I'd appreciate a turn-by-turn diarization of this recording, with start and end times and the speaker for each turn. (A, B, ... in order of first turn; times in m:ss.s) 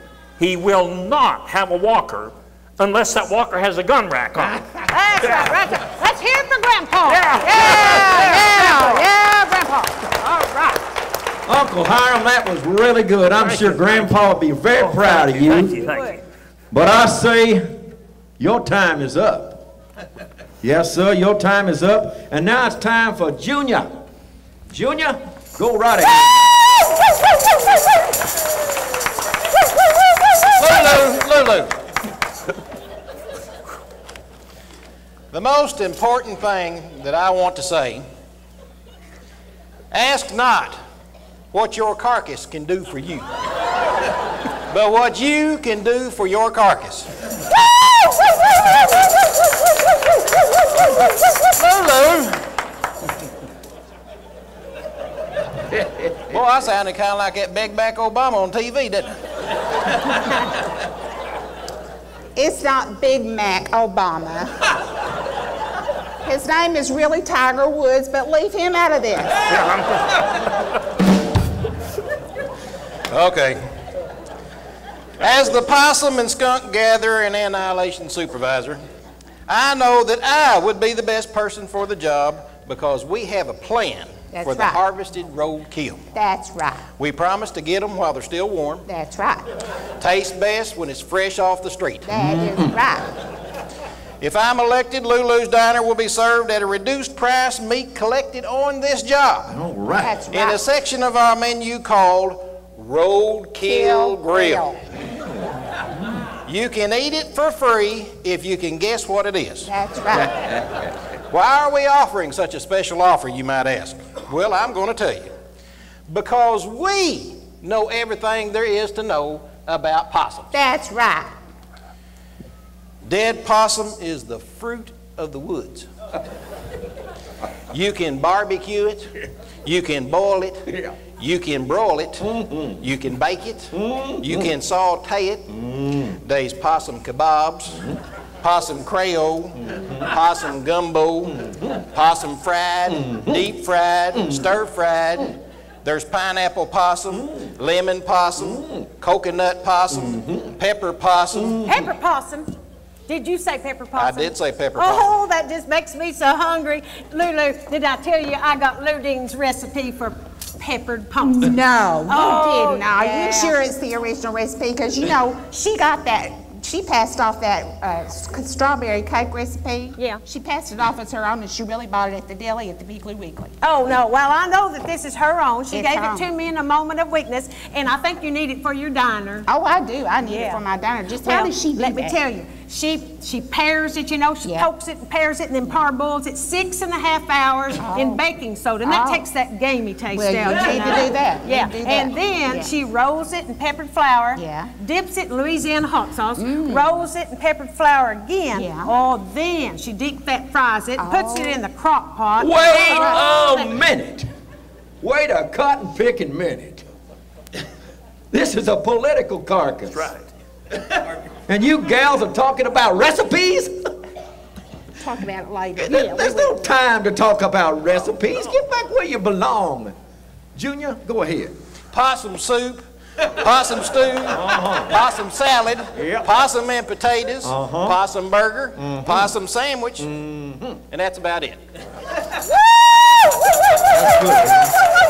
0:00.4-0:04.6 A
0:04.9-0:10.8 B
0:07.1-0:08.7 A
0:08.0-0:09.0 C
0:11.5-0:15.8 D
0:13.4-0:14.2 A
0:14.8-0:16.2 A
0:15.8-0:16.2 B
0:16.7-0:17.7 D
0:18.4-0:19.6 D
0:20.6-0:23.9 D
0:24.7-0:26.5 D
0:30.6-0:31.8 E
0:35.3-0:38.0 E
0:39.9-0:40.8 E
0:41.5-0:43.2 E
0:44.7-0:47.1 E
0:51.6-0:52.1 E
0:56.3-0:59.1 E
1:02.4-1:04.5 C
1:06.2-1:09.4 C
1:13.1-1:13.6 E
1:15.2-1:18.8 E
1:19.5-1:26.0 E
1:24.3-1:24.8 C
1:26.2-1:26.8 C
1:27.0-1:28.8 E
1:28.9-1:29.5 C
1:30.0-1:32.1 E
1:32.1-1:33.1 C
1:32.2-1:32.7 D
1:34.2-1:39.5 E
1:39.5-1:40.2 D
1:40.0-1:40.6 C
1:40.3-1:44.6 E
1:43.6-1:44.8 C
1:46.5-1:49.7 E
1:49.7-1:50.4 C
1:51.3-1:55.3 E
1:56.1-2:00.5 E
2:00.5-2:01.4 C
2:03.0-2:05.9 E
2:07.7-2:09.1 E
2:09.6-2:10.6 E
2:11.2-2:12.2 E
2:12.4-2:12.7 D
2:12.8-2:15.4 E
2:13.8-2:14.4 D
2:15.6-2:16.1 D
2:16.2-2:17.8 E
2:18.4-2:31.6 E
2:31.6-2:32.5 B
2:33.1-2:41.5 B
2:34.0-2:35.1 E
2:41.2-2:53.5 C
2:42.1-2:43.6 B
2:50.0-2:50.2 B
2:53.6-2:59.5 B
2:55.7-2:56.3 C
2:59.5-3:02.2 C
3:00.2-3:00.6 B
3:01.2-3:23.7 B
3:04.4-3:04.7 C
3:07.8-3:08.2 C
3:08.8-3:09.3 C
3:10.1-3:12.7 C
3:14.4-3:14.7 C
3:16.4-3:16.9 C
3:18.5-3:18.9 C
3:21.0-3:21.6 C
3:22.4-3:24.3 D
3:22.9-3:23.2 C
3:25.0-3:26.8 D
3:28.3-3:30.1 D
3:29.9-3:30.2 A
3:31.5-3:33.9 D
3:35.0-3:36.6 C
3:35.8-3:40.0 D
3:40.6-3:41.5 D
3:41.9-3:42.8 E
3:43.4-3:50.1 E
3:44.3-3:44.9 D
3:45.9-3:46.3 D
3:47.4-3:48.0 D
3:48.8-3:49.3 D
3:50.0-3:50.8 D
3:50.9-3:51.6 E
3:53.9-3:54.7 D